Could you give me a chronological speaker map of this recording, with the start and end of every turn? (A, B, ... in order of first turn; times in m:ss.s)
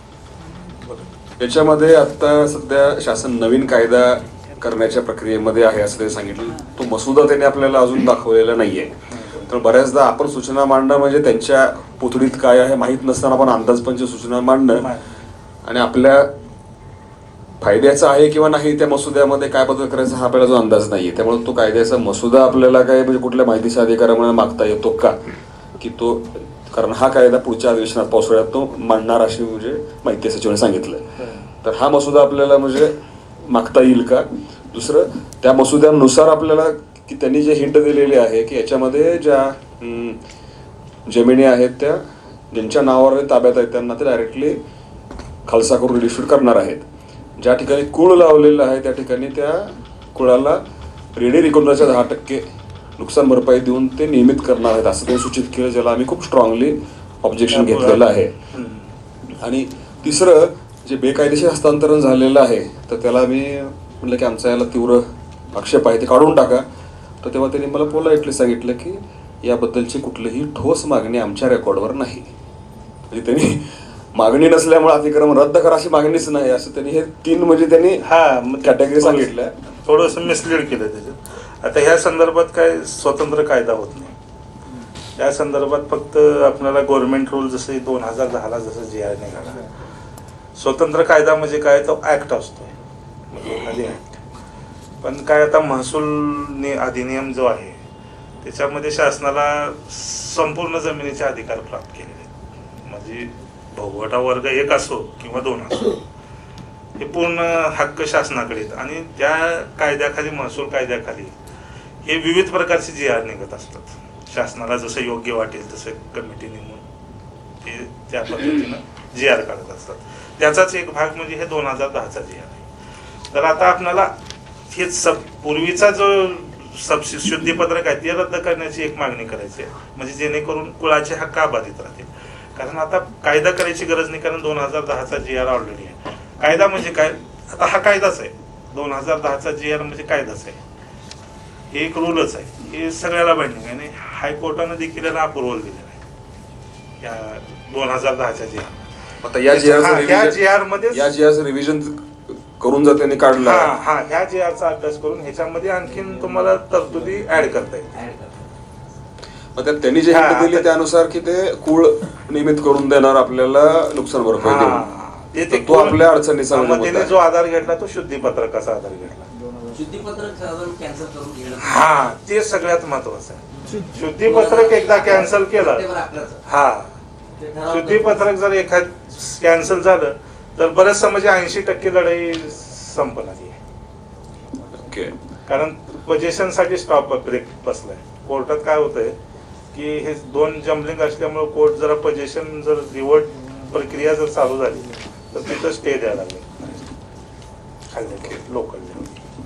0:01.4-0:14.9 A
0:15.6-0:16.3 A
0:17.6-0:25.2 A
0:25.8-0:31.0 A
0:31.6-0:40.2 A
0:41.1-0:44.6 A
0:45.5-0:46.8 A
0:47.4-0:50.6 A
0:51.2-0:52.4 A
0:53.0-0:58.3 A
0:57.5-0:58.8 B
0:59.4-1:06.6 A
1:07.2-1:12.3 A
1:13.1-1:18.0 A
1:18.0-1:19.3 B
1:18.6-1:19.5 A
1:19.8-1:24.1 B
1:25.2-1:29.7 B
1:30.6-1:32.7 B
1:33.3-1:34.0 B
1:35.0-1:37.8 B
1:38.4-1:42.3 B
1:42.8-1:46.0 B
1:47.0-1:51.3 B
1:52.0-1:56.8 B
1:57.6-2:02.6 B
2:03.3-2:04.1 B
2:04.7-2:20.6 B
2:21.7-2:26.0 B
2:27.0-2:28.7 B
2:29.2-2:30.4 A
2:29.5-2:31.1 B
2:30.9-2:33.7 A
2:33.4-2:38.1 B
2:39.6-2:44.8 A
2:40.1-2:40.7 B
2:44.4-2:49.3 B
2:45.5-2:47.1 A
2:49.7-2:51.6 C
2:51.6-2:55.9 B
2:54.3-2:56.3 C
2:56.4-2:56.9 B
2:57.4-2:58.0 C
2:57.6-3:03.6 B
3:04.7-3:05.1 A
3:05.5-3:09.2 B
3:09.7-3:16.9 B
3:17.9-3:19.1 B